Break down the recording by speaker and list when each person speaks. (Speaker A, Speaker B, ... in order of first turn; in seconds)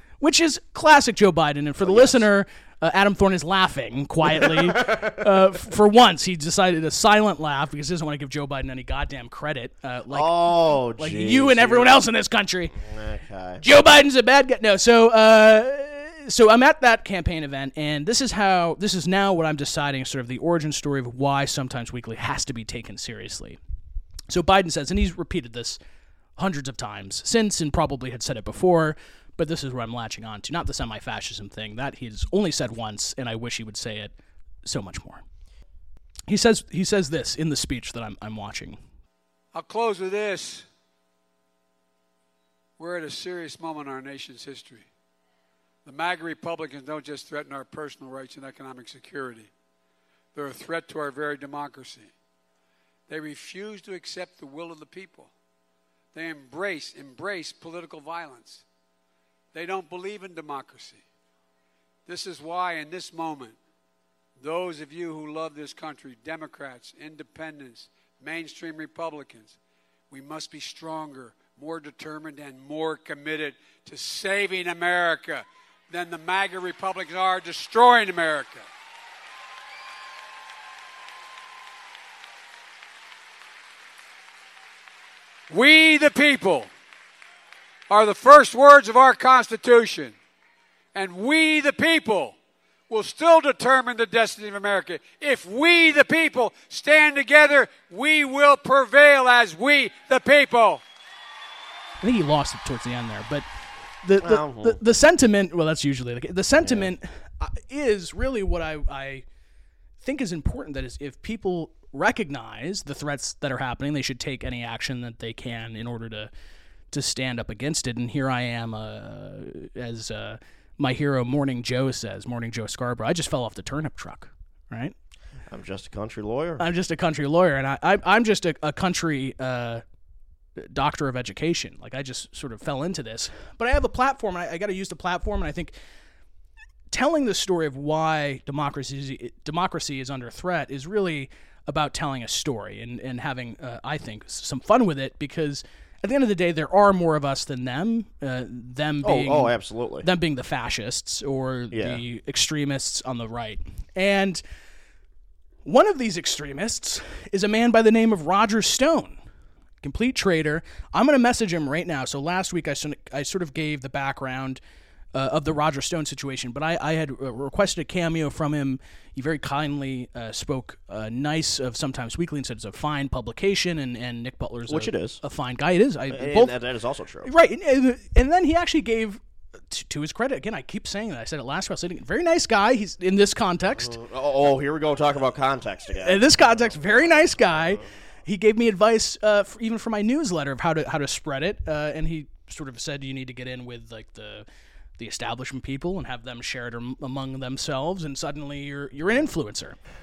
Speaker A: 0.2-12.8, 13.6-23.6, 24.3-25.8, 26.4-34.1, 34.6-35.2, 36.3-38.8, 102.0-103.5, 104.0-109.2, 110.0-116.3, 116.9-125.0, 126.6-129.8, 130.6-135.8, 136.9-154.4, 155.7-159.2, 159.8-164.6, 165.1-176.6, 177.2-184.0, 186.0-194.5, 195.0-199.8
Speaker B: 1.8-2.3, 4.4-5.1, 10.1-12.0, 12.7-13.6, 104.2-104.8, 106.6-106.9, 125.5-126.6, 149.0-150.1, 151.7-152.0, 174.7-175.2, 176.1-177.3, 183.8-187.2
Speaker C: 39.5-40.7, 42.8-44.9, 45.9-49.5, 50.4-52.1, 53.1-55.3, 56.1-58.6, 59.5-61.0, 62.1-63.6, 64.4-69.6, 70.1-78.7, 85.5-86.7, 87.9-90.2, 90.9-92.3, 92.9-100.8